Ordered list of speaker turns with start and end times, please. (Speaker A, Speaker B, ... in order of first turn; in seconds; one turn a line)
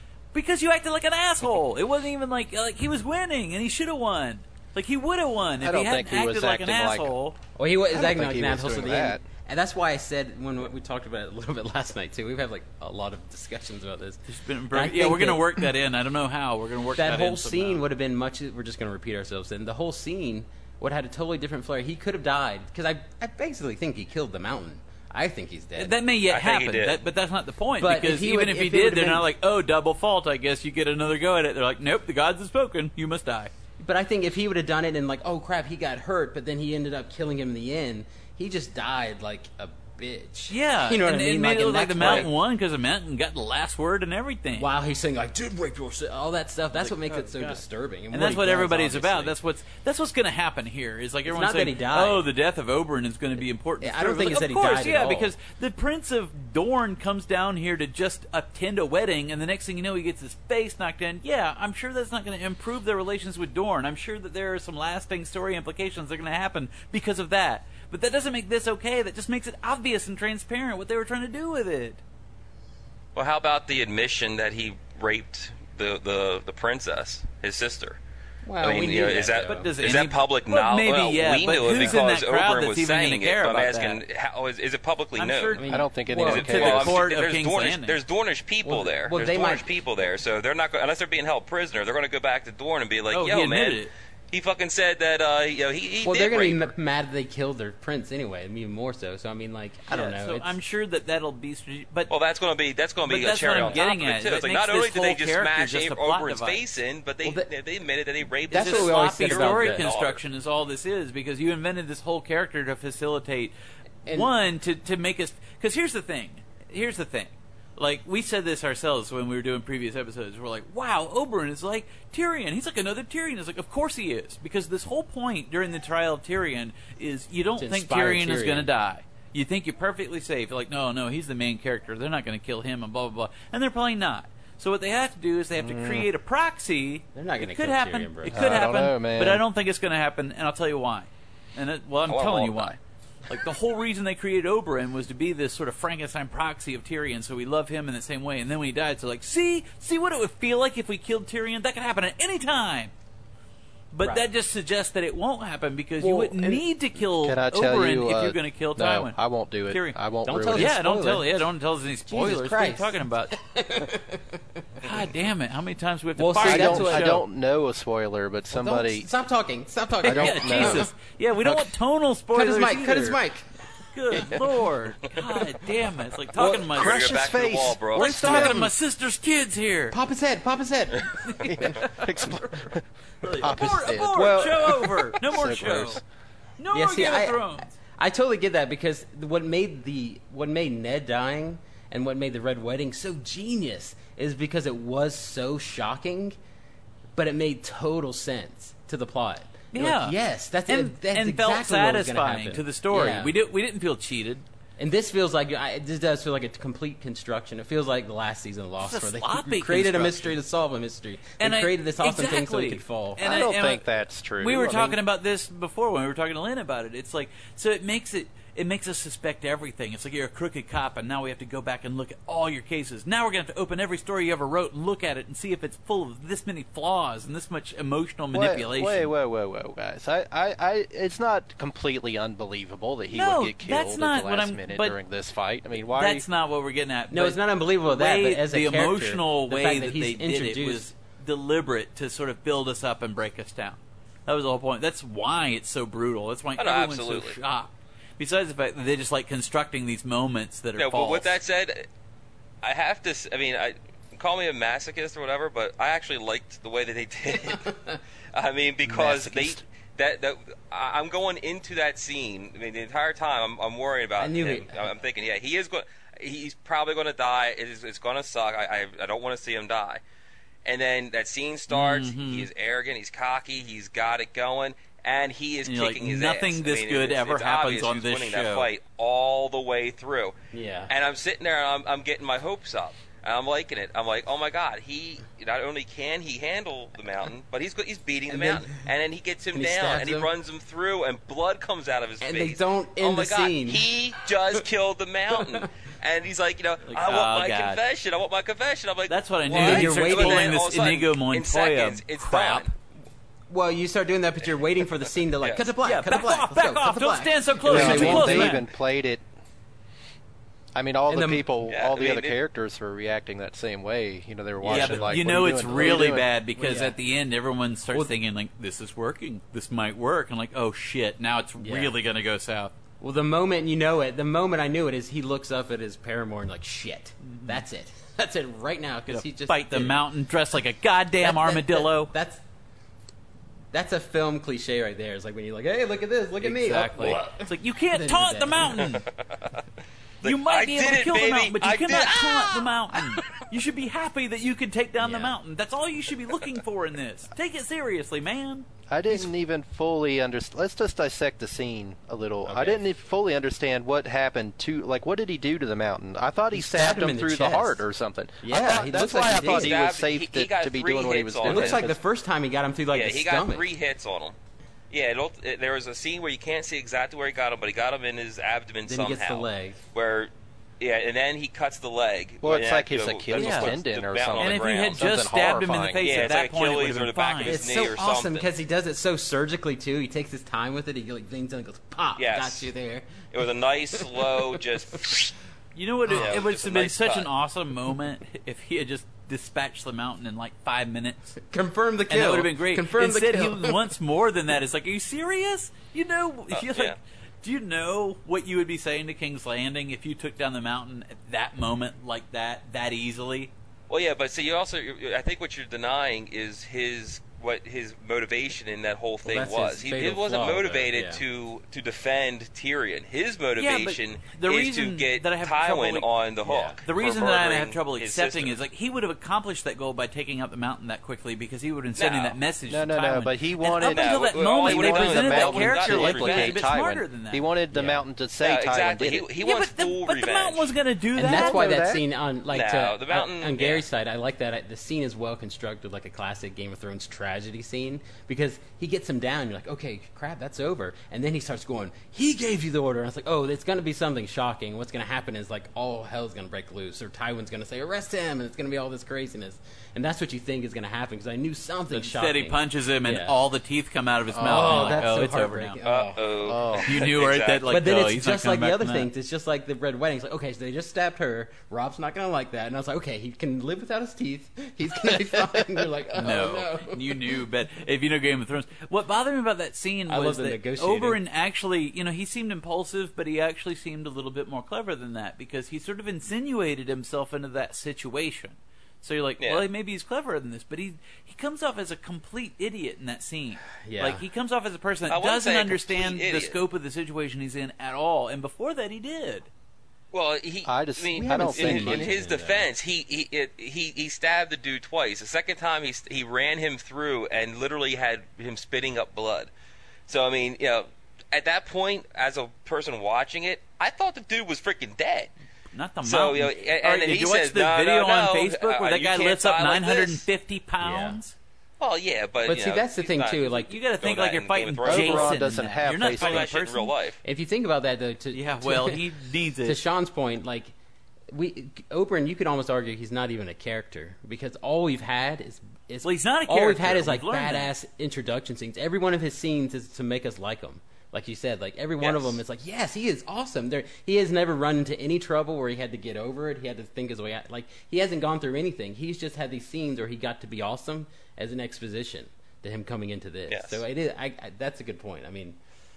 Speaker A: 0.3-7.4
Speaker B: 5.6-7.1
Speaker C: 7.6-15.7
Speaker B: 7.9-9.2
Speaker A: 14.3-17.8
Speaker C: 17.0-26.0
Speaker A: 25.8-33.5
Speaker D: 26.3-27.0
Speaker C: 27.8-29.2
Speaker C: 33.8-42.3
Speaker A: 40.5-44.7
Speaker D: 42.0-42.3
Speaker C: 44.5-49.4
Speaker A: 46.8-72.0
Speaker C: 51.3-52.3
Speaker C: 53.4-55.3
Speaker D: 73.2-78.0
Speaker C: 78.4-79.7
Speaker D: 78.6-85.6
Speaker A: 79.5-84.0
Speaker A: 85.2-88.0
Speaker C: 85.6-86.8
Speaker B: 85.7-87.0
Speaker D: 86.2-96.7
Speaker C: 88.7-89.8
Speaker A: 93.1-93.9
Speaker C: 96.0-100.6
Speaker A: 99.9-102.1
Speaker D: 102.1-110.2
Speaker A: 103.1-106.6
Speaker C: 107.2-107.5
Speaker C: 108.5-109.8
Speaker A: 108.5-113.5
Speaker C: 114.0-114.3
Speaker A: 114.1-142.8
Speaker C: 127.5-128.7
Speaker B: 135.6-136.1
Speaker C: 137.2-138.7
Speaker B: 138.3-139.4
Speaker D: 142.1-142.8
Speaker A: 143.3-152.9
Speaker A: 153.9-163.4
Speaker C: 154.0-154.3
Speaker C: 156.0-156.6
Speaker B: 156.4-160.8
Speaker C: 160.2-161.4
Speaker C: 162.1-164.6
Speaker A: 164.8-167.2
Speaker C: 166.2-167.2
Speaker B: 166.4-169.1
Speaker C: 168.5-170.9
Speaker B: 170.1-170.9
Speaker A: 170.1-173.2
Speaker C: 172.3-173.5
Speaker A: 173.9-177.3
Speaker B: 176.4-178.7
Speaker D: 176.7-178.6
Speaker A: 177.9-180.0
Speaker C: 179.9-181.8
Speaker A: 181.2-182.7
Speaker B: 181.4-186.0
Speaker A: 183.2-186.0
Speaker A: 186.6-187.8
Speaker C: 186.7-196.4
Speaker C: 197.2-203.3
Speaker A: 199.7-204.4
Speaker C: 204.8-213.5
Speaker A: 208.8-210.3
Speaker A: 211.4-213.9
Speaker B: 213.2-215.0
Speaker A: 214.4-229.1
Speaker B: 228.3-236.2
Speaker A: 233.1-235.0
Speaker A: 235.9-251.4
Speaker C: 237.1-240.9
Speaker D: 246.6-247.4
Speaker D: 250.8-251.9
Speaker D: 252.6-257.7
Speaker C: 257.5-258.0
Speaker D: 258.3-270.0
Speaker B: 258.9-259.6
Speaker C: 264.2-264.9
Speaker D: 270.6-280.4
Speaker A: 271.7-272.5
Speaker A: 275.7-278.7
Speaker C: 280.5-280.9
Speaker D: 280.9-302.7
Speaker C: 288.3-288.9
Speaker C: 289.5-290.3
Speaker C: 292.2-293.9
Speaker C: 295.4-295.7
Speaker A: 296.9-297.8
Speaker A: 299.1-302.7
Speaker C: 299.5-300.6
Speaker C: 303.5-308.7
Speaker D: 305.4-305.7
Speaker A: 305.8-308.6
Speaker B: 307.7-309.2
Speaker B: 310.8-316.3
Speaker C: 311.1-311.5
Speaker D: 311.7-312.4
Speaker C: 314.6-317.0
Speaker A: 314.6-322.7
Speaker C: 317.9-318.2
Speaker C: 321.6-321.9
Speaker C: 323.0-330.0
Speaker A: 327.2-327.6
Speaker A: 329.1-332.1
Speaker C: 331.2-332.4
Speaker C: 333.7-339.0
Speaker A: 336.4-339.1
Speaker D: 340.2-343.4
Speaker A: 340.2-348.7
Speaker C: 345.0-345.4
Speaker B: 348.9-362.0
Speaker C: 352.4-352.9
Speaker C: 356.5-357.9
Speaker C: 358.4-359.8
Speaker D: 358.5-362.0
Speaker C: 361.4-363.7
Speaker D: 362.9-364.4
Speaker D: 364.9-375.1
Speaker C: 368.9-369.8
Speaker B: 372.4-376.3
Speaker A: 373.4-373.7
Speaker A: 374.4-377.6
Speaker D: 376.0-378.5
Speaker C: 377.4-384.6
Speaker D: 382.2-382.7
Speaker D: 383.3-385.3
Speaker A: 385.7-391.4
Speaker C: 386.1-386.4
Speaker D: 386.1-387.3
Speaker C: 391.4-393.9
Speaker A: 392.1-403.5
Speaker D: 396.5-397.0
Speaker D: 403.9-418.6
Speaker C: 409.2-411.2
Speaker A: 413.6-416.1
Speaker C: 416.4-416.8
Speaker A: 416.9-427.5
Speaker D: 422.0-422.4
Speaker B: 422.7-429.3
Speaker D: 423.6-426.7
Speaker C: 427.7-428.1
Speaker D: 428.4-430.7
Speaker A: 429.4-431.6
Speaker C: 431.1-453.5
Speaker B: 431.2-432.0
Speaker D: 432.5-433.8
Speaker A: 451.9-455.8
Speaker C: 454.4-456.3
Speaker B: 454.4-455.0
Speaker D: 455.8-457.7
Speaker B: 456.4-456.9
Speaker A: 456.8-459.1
Speaker C: 457.7-467.4
Speaker A: 466.2-489.5
Speaker C: 470.1-471.2
Speaker D: 479.4-479.6
Speaker C: 483.8-484.2
Speaker D: 485.1-486.6
Speaker D: 490.1-499.5
Speaker B: 490.7-492.1
Speaker C: 491.2-492.7
Speaker D: 500.1-505.3
Speaker A: 505.7-511.4
Speaker D: 506.0-510.2
Speaker C: 510.8-511.2
Speaker D: 511.8-515.4
Speaker C: 512.5-513.8
Speaker A: 513.7-516.9
Speaker B: 514.9-516.5
Speaker D: 516.1-517.2
Speaker C: 517.2-519.1
Speaker A: 518.3-519.8
Speaker C: 519.6-520.7
Speaker C: 521.3-545.6
Speaker A: 526.0-527.7
Speaker D: 532.0-532.4
Speaker D: 543.5-543.8